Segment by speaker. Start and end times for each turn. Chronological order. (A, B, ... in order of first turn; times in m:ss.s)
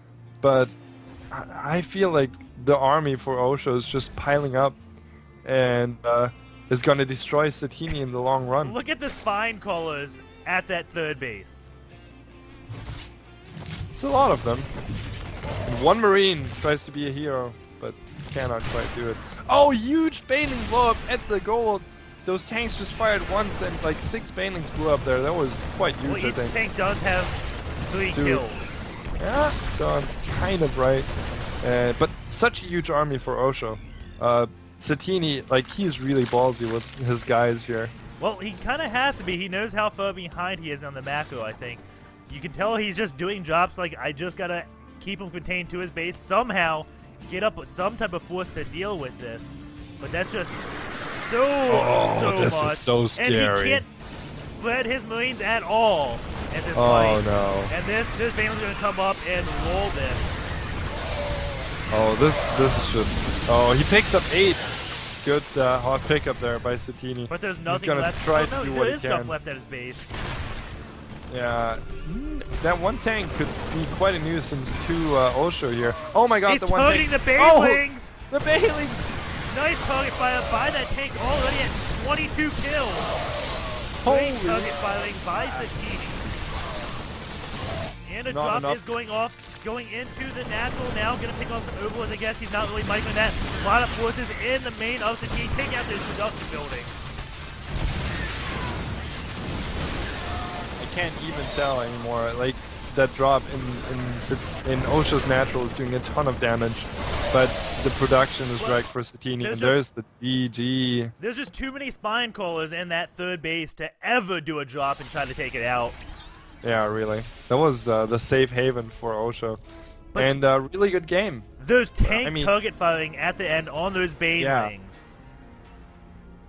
0:00.4-0:00.7 A
0:01.3-0:04.8 A
0:05.4-0:08.8 A
0:08.6-0:11.7 B
0:13.9-0:14.7 A
0:15.7-0:26.5 A
0:26.0-0:28.9 B
0:28.1-0:28.4 A
0:29.2-0:31.1 A
0:31.6-0:37.9 A
0:38.2-1:00.3 B
0:51.7-0:53.8 A
0:56.8-0:57.7 A
1:01.9-1:04.7 A
1:05.2-1:09.3 A
1:07.3-1:10.2 B
1:11.3-1:19.2 A
1:16.5-1:18.1 B
1:19.5-1:23.1 B
1:24.0-1:24.8 A
1:24.0-1:26.3 B
1:25.3-1:25.7 A
1:28.0-1:37.0 B
1:28.2-1:28.8 A
1:40.8-1:51.1 A
1:48.6-1:48.9 B
1:49.4-1:49.8 B
1:51.2-1:56.0 B
1:56.6-1:59.6 A
2:00.2-2:01.4 A
2:01.6-2:05.2 B
2:02.0-2:02.5 A
2:04.4-2:04.7 A